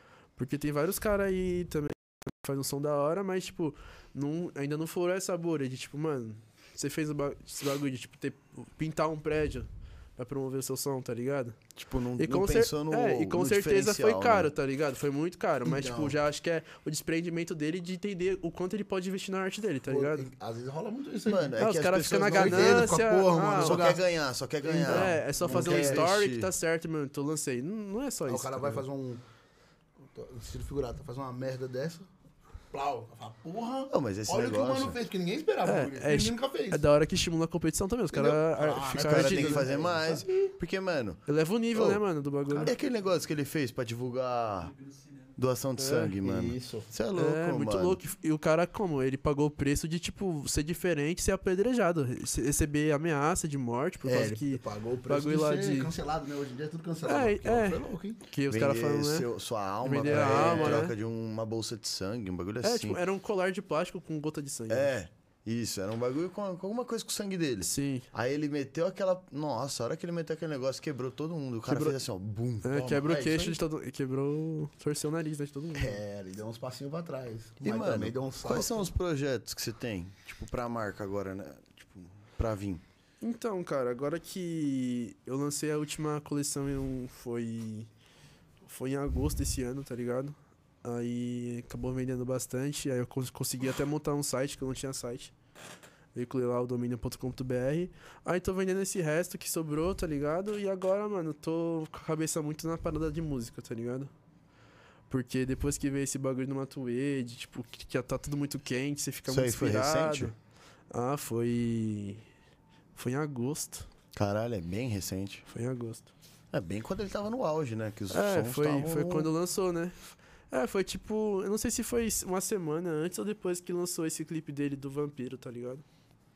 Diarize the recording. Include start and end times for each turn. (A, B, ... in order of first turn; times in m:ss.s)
0:00.4-0:11.6 A
0:11.8-0:14.5 B
0:12.2-0:20.3 A
0:15.6-0:16.2 C
0:19.9-0:21.5 C
0:21.2-0:23.0 B
0:21.6-0:23.8 A
0:22.3-0:24.0 C
0:23.6-0:26.5 B
0:24.6-0:26.0 C
0:24.8-0:28.8 A
0:28.3-0:29.2 C
0:30.1-0:32.1 C
0:32.7-0:36.8 C
0:33.9-0:35.0 B
0:35.6-0:39.7 A
0:38.1-0:40.5 C
0:38.9-0:41.2 B
0:41.3-0:42.7 A
0:41.7-0:44.8 B
0:45.4-0:48.0 B
0:45.8-0:46.2 A
0:46.2-0:46.9 C
0:47.1-0:55.9 A
0:54.0-0:58.2 C
0:57.0-0:59.3 A
0:58.5-1:03.0 B
0:59.8-1:00.9 A
1:00.0-1:00.8 C
1:02.6-1:04.9 A
1:04.7-1:12.7 B
1:07.6-1:08.1 A
1:11.7-1:12.0 A
1:12.6-1:16.0 A
1:12.7-1:13.6 C
1:15.7-1:18.9 C
1:17.6-1:22.8 B
1:23.2-1:27.9 A
1:28.6-1:35.3 A
1:36.1-1:44.1 A
1:45.1-1:50.3 A
1:49.3-1:50.3 B
1:50.9-1:52.2 A
1:52.9-1:53.9 A
1:54.1-1:55.4 B
1:55.5-1:56.1 A
1:56.5-1:59.3 B
1:58.1-2:05.8 A